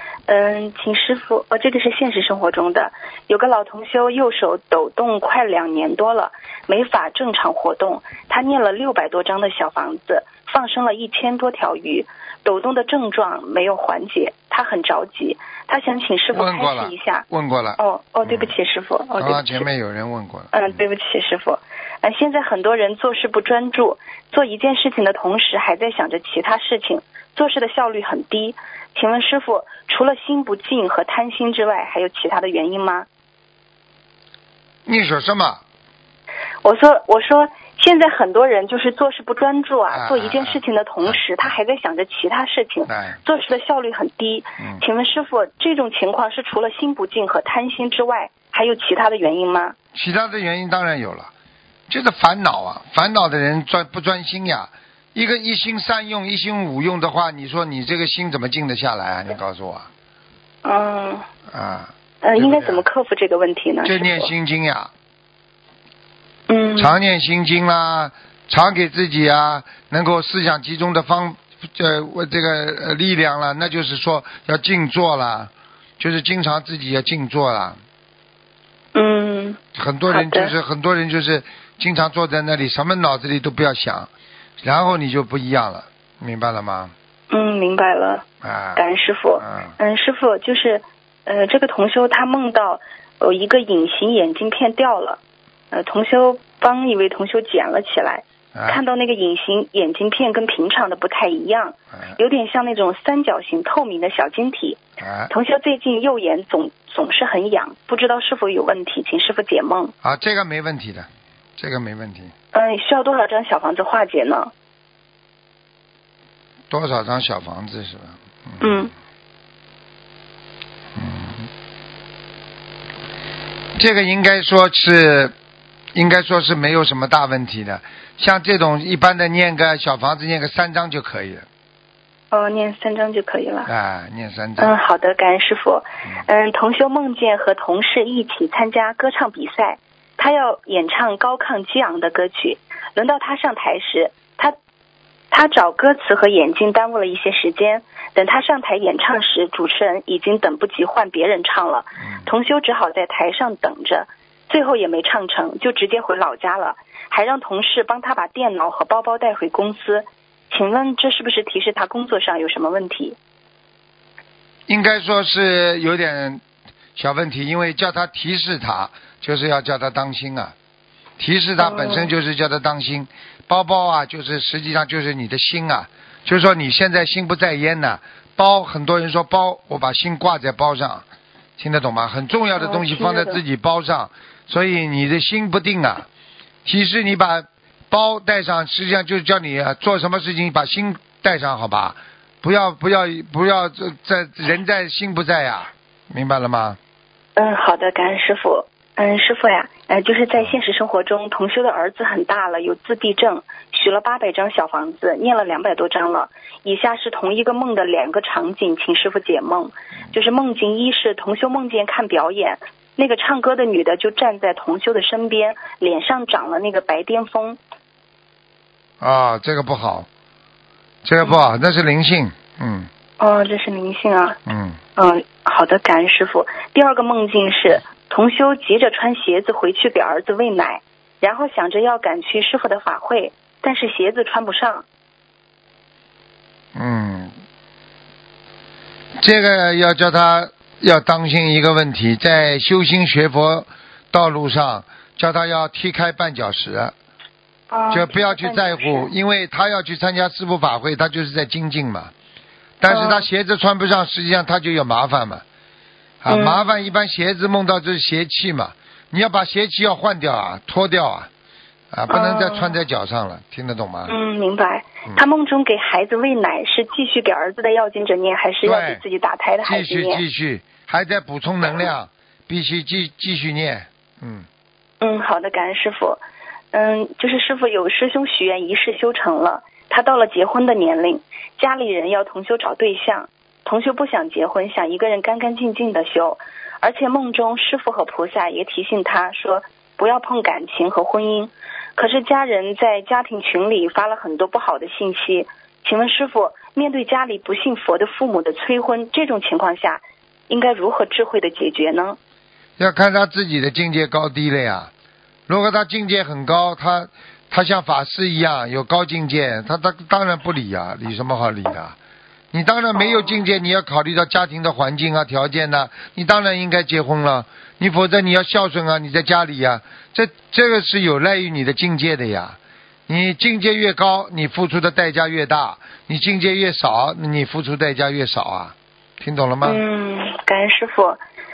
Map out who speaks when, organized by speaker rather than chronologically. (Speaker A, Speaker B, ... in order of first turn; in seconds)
Speaker A: 0.3-17.3, 17.8-19.7, 20.5-33.1, 36.6-49.8, 60.6-61.3, 62.2-64.3, 66.5-67.0, 79.0-80.5, 87.3-88.2, 88.8-95.2, 95.7-104.8, 105.3-109.9, 112.5-114.5, 118.6-118.9, 132.3-133.7, 134.6-144.6, 145.3-163.2, 171.6-172.1, 182.6-183.4, 197.4-217.6, 221.2-221.5, 223.2-224.4, 225.0-234.8, 247.7-249.1, 252.9-253.3, 256.3-256.7, 262.1-262.8, 264.1-270.2, 275.0-276.2, 276.7-302.2, 312.9-313.4, 329.6-331.2
Speaker B: 16.3-18.5, 19.2-20.5, 34.9-35.6, 39.9-41.2, 42.9-43.2, 49.9-51.3, 51.9-59.9, 61.5-62.8, 63.9-64.9, 66.8-77.8, 79.7-84.1, 84.6-86.9, 88.4-88.9, 89.4-89.8, 98.5-98.8, 105.0-105.3, 110.0-112.3, 116.7-118.9, 121.0-121.5, 123.8-125.3, 125.9-131.5, 133.7-134.7, 164.7-166.4, 167.0-170.6, 171.2-181.1, 181.6-186.1, 186.7-196.8, 219.0-220.1, 221.0-222.9, 224.5-224.8, 236.8-237.3, 239.2-246.9, 247.9-252.1, 252.8-255.4, 256.2-261.3, 261.9-264.1, 268.6-269.0, 269.6-274.5, 302.8-304.9, 305.5-312.0, 312.5-329.8